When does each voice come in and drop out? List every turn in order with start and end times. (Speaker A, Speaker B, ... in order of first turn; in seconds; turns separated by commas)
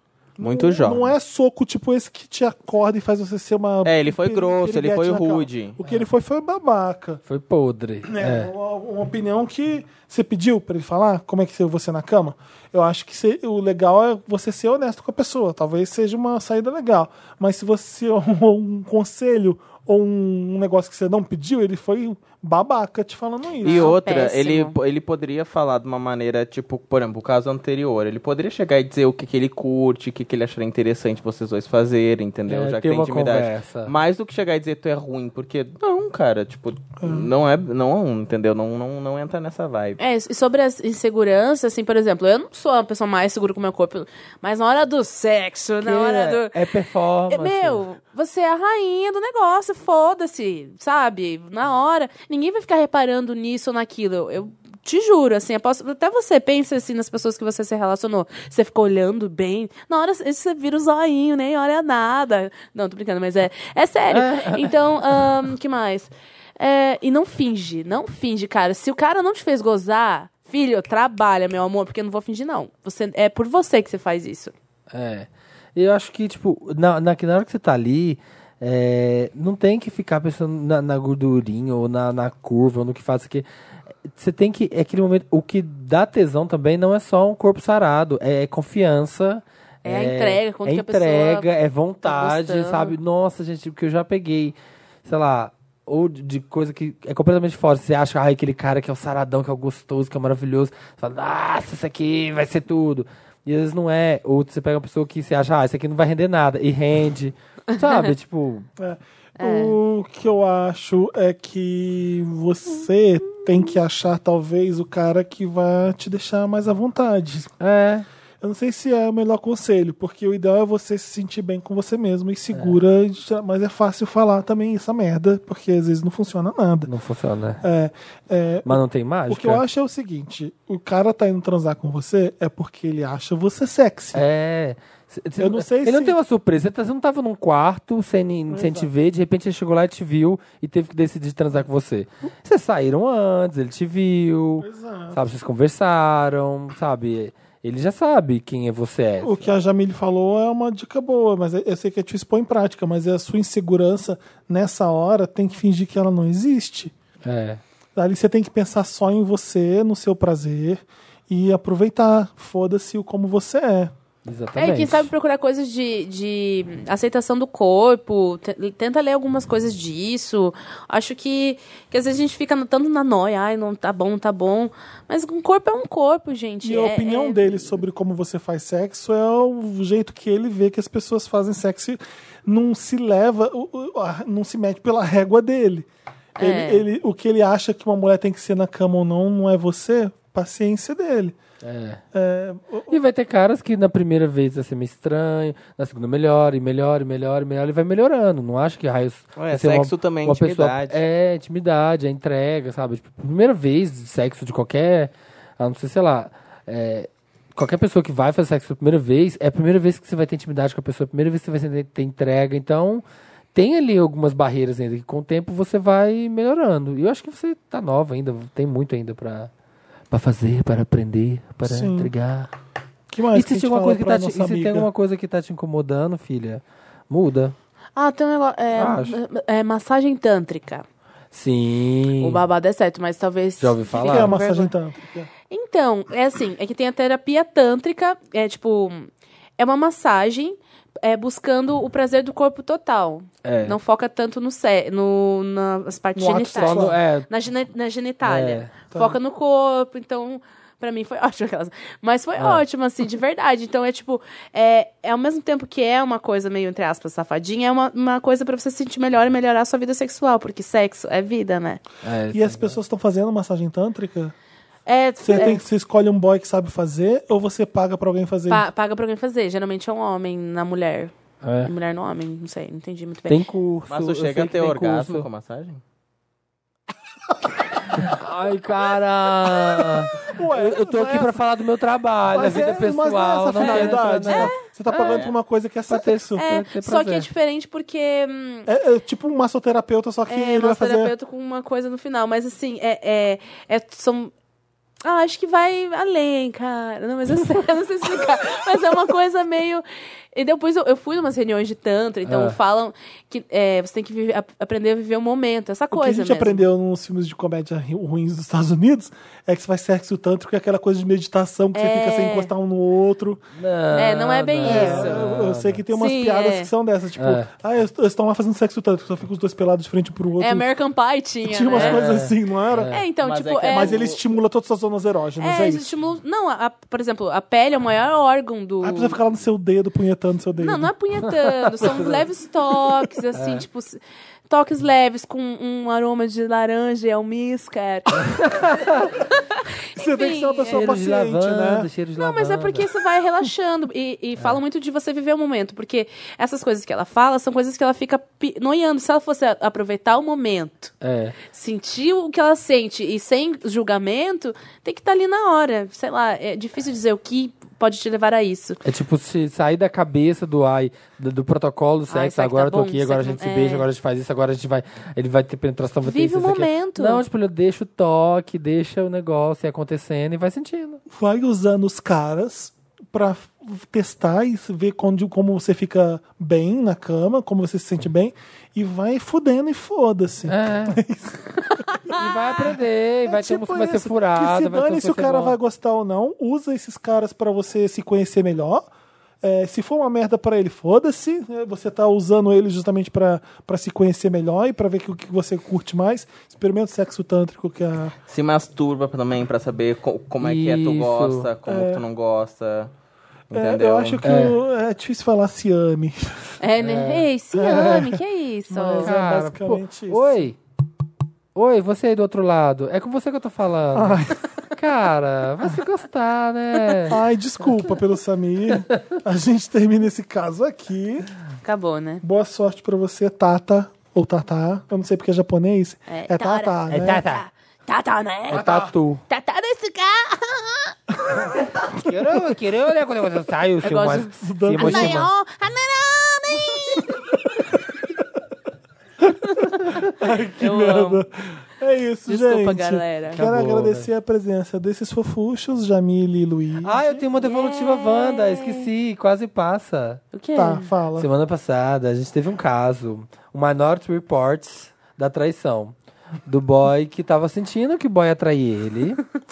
Speaker A: 0.4-7.2, Speaker B: 0.4-1.1, Speaker B: 3.8-5.8, Speaker C: 7.2-8.5, Speaker A: 8.1-23.9, Speaker D: 23.6-24.8, Speaker B: 23.6-40.0, Speaker C: 32.5-33.9, Speaker A: 37.0-37.3, Speaker D: 40.0-46.6, Speaker C: 45.8-47.8, Speaker D: 47.3-74.5, Speaker C: 64.1-64.8, Speaker C: 74.9-83.5, Speaker C: 84.1-108.7, Speaker D: 89.8-91.5, Speaker D: 92.0-92.9, Speaker A: 108.8-117.5, Speaker D: 109.4-109.8, Speaker C: 117.6-118.0, Speaker A: 118.4-126.9, Speaker C: 126.8-127.6, Speaker A: 127.6-134.2, Speaker C: 128.7-129.6, Speaker C: 134.1-149.5, Speaker A: 135.4-136.2, Speaker A: 138.5-138.9, Speaker A: 144.6-145.2, Speaker A: 149.2-156.9, Speaker C: 157.2-157.6, Speaker A: 157.9-163.9, Speaker C: 164.2-165.1, Speaker D: 164.6-177.7, Speaker A: 176.6-191.3, Speaker D: 186.4-186.8, Speaker C: 191.6-192.0, Speaker A: 192.1-193.0, Speaker C: 192.9-219.5, Speaker B: 199.4-201.0, Speaker C: 220.1-222.5, Speaker A: 221.6-222.1, Speaker A: 223.1-224.9, Speaker C: 223.3-227.5, Speaker D: 227.9-230.8, Speaker C: 228.7-229.2, Speaker C: 231.3-232.4, Speaker D: 232.2-234.7, Speaker C: 233.6-234.4, Speaker A: 233.9-235.3, Speaker D: 235.5-261.8, Speaker C: 243.4-243.8, Speaker A: 246.1-247.0, Speaker C: 246.5-247.3, Speaker C: 248.2-248.7, Speaker A: 248.9-249.2, Speaker C: 252.4-252.6, Speaker C: 262.0-262.8, Speaker A: 262.3-264.3, Speaker D: 264.9-265.6, Speaker A: 265.2-268.6, Speaker D: 268.5-273.4, Speaker C: 271.4-271.7, Speaker C: 273.3-275.3, Speaker B: 273.9-275.8, Speaker C: 277.9-285.2, Speaker A: 280.2-281.4, Speaker A: 282.3-286.4, Speaker D: 283.6-284.6, Speaker B: 285.0-285.3, Speaker C: 285.9-287.3, Speaker D: 286.4-288.7, Speaker A: 288.6-291.1, Speaker D: 290.3-294.3, Speaker D: 295.0-306.6, Speaker C: 302.2-302.6, Speaker A: 305.9-313.4, Speaker D: 311.7-312.5, Speaker C: 313.5-315.8, Speaker D: 313.9-315.3, Speaker A: 314.6-320.7, Speaker D: 315.9-316.7, Speaker C: 317.2-317.5, Speaker D: 320.4-322.1, Speaker A: 321.4-322.9, Speaker C: 321.7-323.0, Speaker D: 322.9-324.0, Speaker B: 323.2-324.2, Speaker A: 323.7-325.9, Speaker D: 325.4-329.2, Speaker A: 328.8-330.9, Speaker D: 330.6-339.2, Speaker C: 331.2-332.2, Speaker C: 333.3-333.6, Speaker C: 338.2-339.1, Speaker D: 339.9-340.9, Speaker A: 339.9-341.9, Speaker C: 340.7-342.9, Speaker D: 342.2-358.8, Speaker C: 351.0-351.4, Speaker C: 358.8-371.0, Speaker D: 362.1-363.9, Speaker D: 366.0-367.2, Speaker A: 371.1-388.9, Speaker C: 380.5-381.0, Speaker C: 382.1-385.6, Speaker A: 389.4-398.1, Speaker B: 398.3-402.9, Speaker C: 400.4-401.5, Speaker A: 401.6-402.0, Speaker B: 403.5-404.2, Speaker A: 403.5-406.6, Speaker C: 404.2-404.6, Speaker D: 406.6-409.1, Speaker C: 406.8-407.3, Speaker A: 407.5-410.5, Speaker C: 409.0-410.6, Speaker C: 411.5-417.1, Speaker A: 413.9-414.5, Speaker A: 417.1-421.3, Speaker D: 421.6-422.2, Speaker A: 422.2-427.3, Speaker D: 426.1-430.9, Speaker C: 426.9-427.4, Speaker C: 428.5-429.2, Speaker A: 428.5-428.9, Speaker C: 431.8-435.3, Speaker D: 433.8-437.2, Speaker A: 434.4-435.3, Speaker A: 437.0-437.6, Speaker A: 440.1-447.2, Speaker D: 440.6-441.2, Speaker D: 442.3-443.4, Speaker C: 443.3-444.1, Speaker C: 446.8-450.2, Speaker D: 447.4-448.9, Speaker D: 450.3-450.9, Speaker A: 450.5-451.3, Speaker C: 451.2-455.9, Speaker C: 456.4-459.2